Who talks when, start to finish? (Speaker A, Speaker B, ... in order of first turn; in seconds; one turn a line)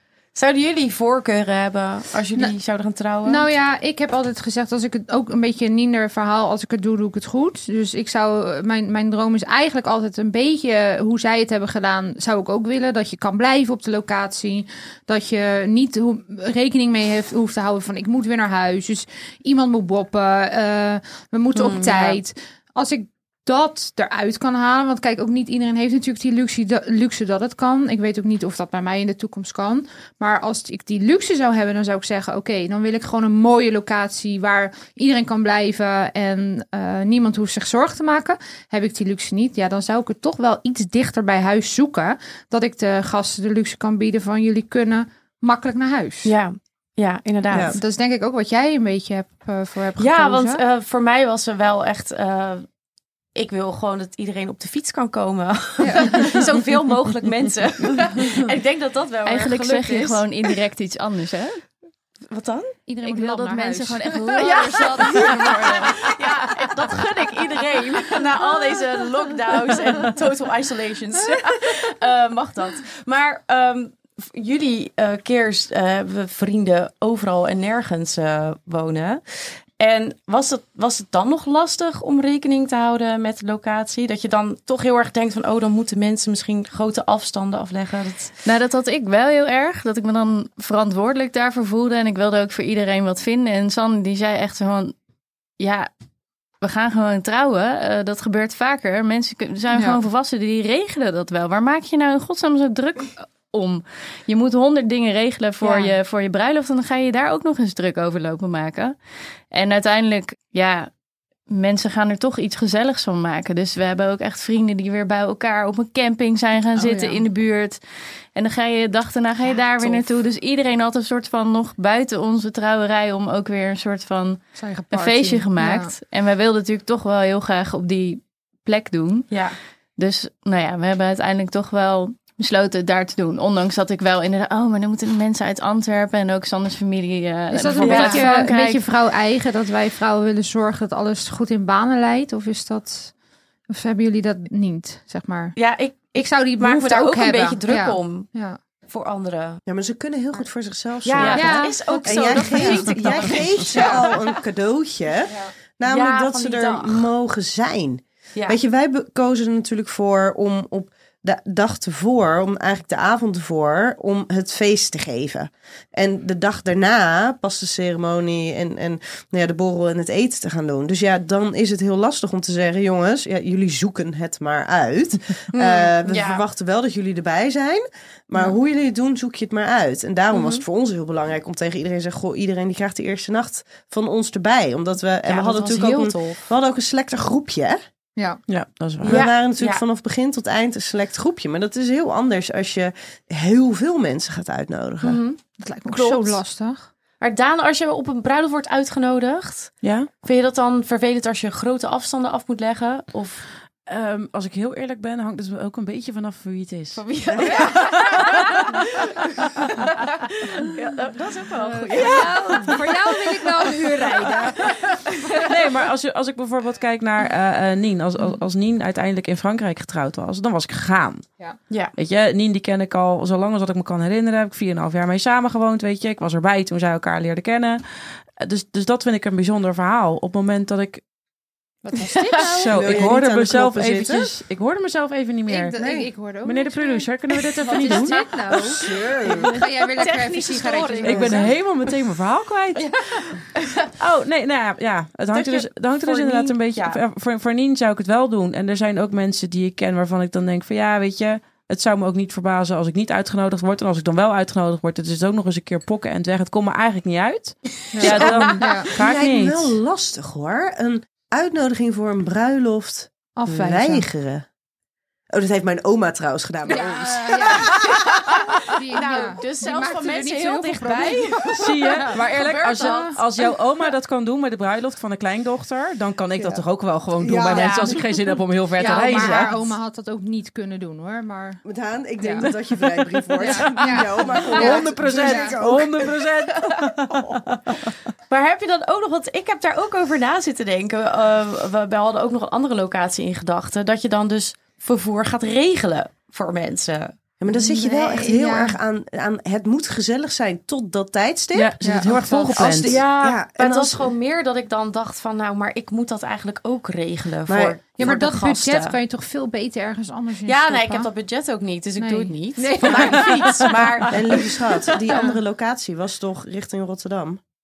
Speaker A: 0.3-3.5
Speaker B: 3.2-46.4
Speaker A: 21.6-22.2
Speaker A: 46.2-47.8
Speaker C: 47.5-47.8
Speaker B: 47.8-50.6
Speaker A: 50.0-52.7
Speaker A: 53.4-60.5
Speaker B: 55.8-56.4
Speaker D: 59.2-61.6
Speaker A: 62.3-62.8
Speaker B: 62.9-65.7
Speaker D: 63.0-66.1
Speaker A: 64.4-79.2
Speaker A: 79.8-88.4
Speaker D: 88.5-95.0
Speaker D: 95.6-95.9
Speaker D: 96.6-109.0
Speaker B: 99.7-100.0
Speaker B: 105.6-105.9
Speaker D: 109.5-110.9
Speaker D: 111.5-117.8
Speaker B: 116.8-117.2
Speaker D: 118.3-129.3
Speaker B: 124.6-125.9
Speaker A: 129.3-129.6
Speaker D: 130.0-138.8
Speaker B: 137.5-143.1
Speaker A: 137.8-138.3
Speaker B: 143.7-145.6
Speaker A: 145.6-148.3
Speaker B: 146.2-148.6
Speaker A: 148.9-149.6
Speaker C: 149.7-187.8
Speaker A: 151.1-154.4
Speaker D: 151.2-151.6
Speaker B: 151.4-154.1
Speaker A: 155.8-157.1
Speaker A: 175.5-176.4
Speaker A: 180.3-180.6
Speaker A: 185.3-186.4
Speaker E: 188.5-189.2
Speaker C: 189.0-195.2
Speaker A: 189.0-189.8
Speaker A: 195.0-196.4
Speaker B: 195.6-196.9
Speaker A: 197.2-203.5
Speaker E: 199.8-200.1
Speaker E: 203.9-208.7
Speaker A: 207.0-212.8
Speaker B: 211.9-214.8
Speaker E: 212.0-212.7
Speaker A: 213.7-215.4
Speaker E: 215.4-221.3
Speaker E: 222.0-227.8
Speaker E: 228.4-231.0
Speaker B: 231.8-232.7
Speaker A: 232.1-232.7
Speaker E: 232.3-235.8
Speaker C: 232.7-234.3
Speaker B: 235.5-241.6
Speaker C: 235.8-236.1
Speaker E: 236.4-238.3
Speaker A: 237.6-241.6
Speaker C: 238.8-239.5
Speaker E: 241.0-242.9
Speaker A: 243.6-243.9
Speaker E: 244.0-259.7
Speaker A: 245.3-247.0
Speaker B: 257.9-258.9
Speaker C: 258.1-264.5
Speaker A: 258.1-258.8
Speaker B: 263.4-264.1
Speaker C: 265.3-268.0
Speaker B: 266.7-273.2
Speaker A: 267.3-273.2
Speaker E: 271.6-279.7
Speaker C: 277.2-278.0
Speaker A: 277.5-278.0
Speaker B: 278.8-281.6
Speaker A: 278.8-279.4
Speaker C: 281.6-286.2
Speaker B: 282.2-282.5
Speaker B: 283.4-285.5
Speaker E: 283.4-287.9
Speaker A: 288.3-297.1
Speaker C: 297.4-304.1
Speaker B: 297.5-298.8
Speaker E: 301.5-303.0
Speaker B: 301.8-302.6
Speaker A: 302.8-309.0
Speaker C: 307.5-307.8
Speaker B: 308.0-311.1
Speaker A: 310.5-315.2
Speaker B: 312.0-313.6
Speaker E: 313.2-313.6
Speaker C: 314.1-317.4
Speaker B: 315.1-315.4